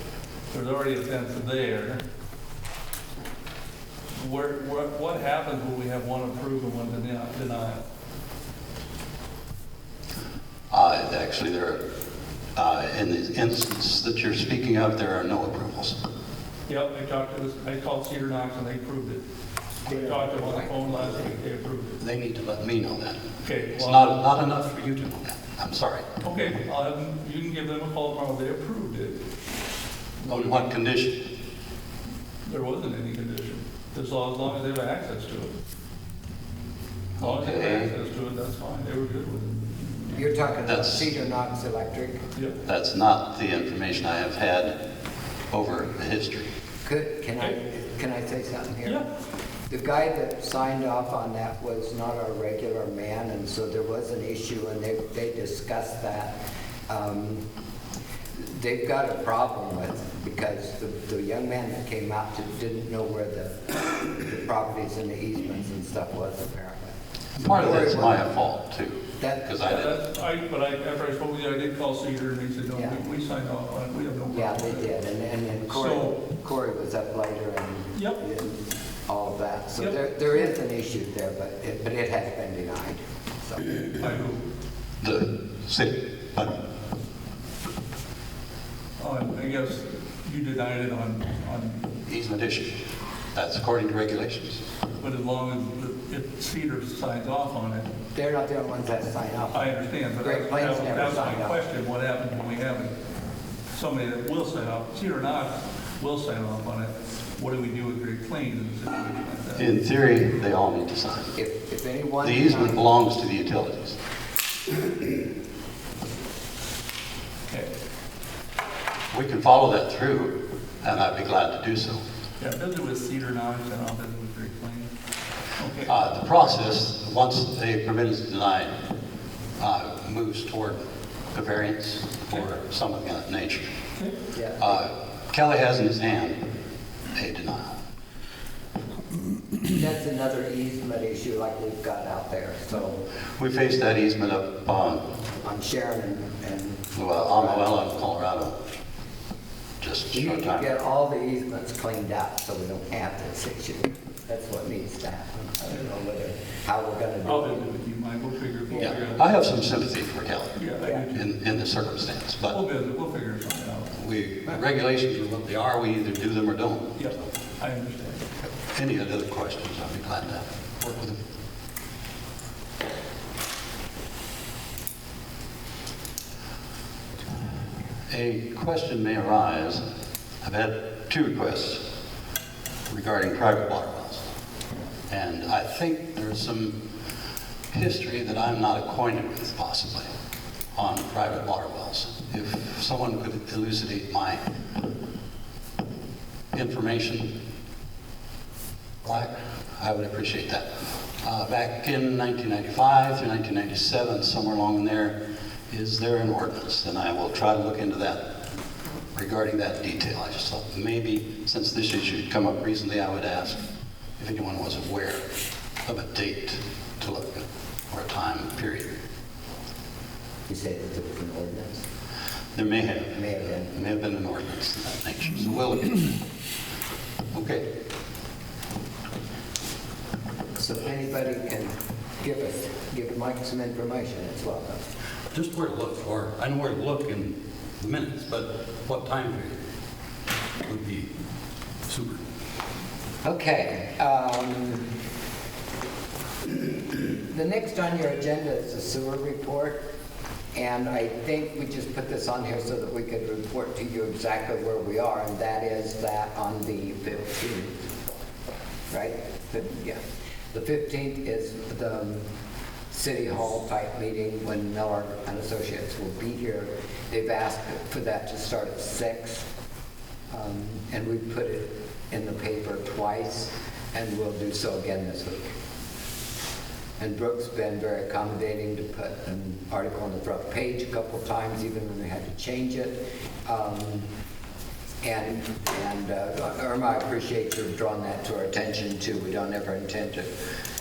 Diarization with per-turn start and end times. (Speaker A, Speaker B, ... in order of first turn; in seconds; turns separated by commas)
Speaker A: 0.5-2.0, Speaker A: 4.2-7.8, Speaker B: 10.7-11.8, Speaker B: 12.6-16.0, Speaker A: 16.7-19.2, Speaker C: 19.9-21.2, Speaker A: 19.9-22.0, Speaker B: 22.0-26.1, Speaker A: 23.4-24.3, Speaker A: 26.2-29.2, Speaker B: 30.2-31.3, Speaker A: 32.5-35.5, Speaker B: 37.2-37.9, Speaker A: 37.2-40.2, Speaker C: 40.1-42.2, Speaker B: 40.6-41.1, Speaker B: 42.7-44.8, Speaker B: 45.5-46.5, Speaker C: 46.9-49.0, Speaker C: 49.7-56.4, Speaker C: 56.9-57.4, Speaker C: 58.4-68.2, Speaker B: 67.4-70.0, Speaker C: 69.2-69.5, Speaker A: 69.6-74.9, Speaker C: 72.8-73.0, Speaker C: 74.3-83.9, Speaker A: 75.7-76.2, Speaker A: 78.0-78.2, Speaker A: 83.9-84.4, Speaker B: 85.0-86.6, Speaker A: 89.0-91.9, Speaker B: 92.1-92.7, Speaker B: 93.3-94.6, Speaker A: 95.0-97.9, Speaker C: 98.1-99.7, Speaker A: 99.5-103.0, Speaker C: 100.2-101.6, Speaker A: 103.7-109.7, Speaker B: 109.6-111.4, Speaker C: 111.4-112.8, Speaker B: 112.2-114.0, Speaker B: 119.1-122.0, Speaker A: 122.4-124.9, Speaker A: 125.6-125.9, Speaker B: 125.9-128.8, Speaker B: 129.6-133.7, Speaker C: 134.3-134.7, Speaker B: 134.6-136.4, Speaker B: 137.2-137.8, Speaker C: 139.7-143.1, Speaker B: 143.4-145.0, Speaker C: 145.4-147.9, Speaker B: 147.0-148.6, Speaker B: 149.8-150.7, Speaker C: 150.1-157.7, Speaker A: 157.2-159.4, Speaker C: 158.7-159.0, Speaker B: 158.8-160.6, Speaker A: 160.6-161.3, Speaker B: 161.1-162.6, Speaker A: 162.5-163.9, Speaker B: 164.0-167.1, Speaker A: 167.0-168.2, Speaker B: 168.7-171.2, Speaker B: 178.1-179.8, Speaker B: 180.4-181.8, Speaker B: 182.9-184.2, Speaker B: 185.1-186.8, Speaker B: 187.7-190.1, Speaker B: 190.7-194.4, Speaker B: 196.5-197.3, Speaker B: 199.0-200.7, Speaker B: 201.2-205.2, Speaker B: 205.7-208.2, Speaker B: 209.1-213.6, Speaker B: 214.2-215.2, Speaker B: 215.9-218.9, Speaker C: 220.5-221.8, Speaker B: 222.6-226.2, Speaker C: 223.1-223.7, Speaker B: 227.3-227.7, Speaker C: 230.6-234.8, Speaker B: 235.3-239.6, Speaker B: 240.6-241.1, Speaker B: 241.9-242.2, Speaker C: 243.2-244.9, Speaker C: 247.3-249.8, Speaker C: 250.5-257.8, Speaker C: 258.9-260.0, Speaker C: 260.5-262.2, Speaker C: 262.9-269.5, Speaker C: 270.3-275.6, Speaker C: 277.0-284.1, Speaker C: 285.0-290.3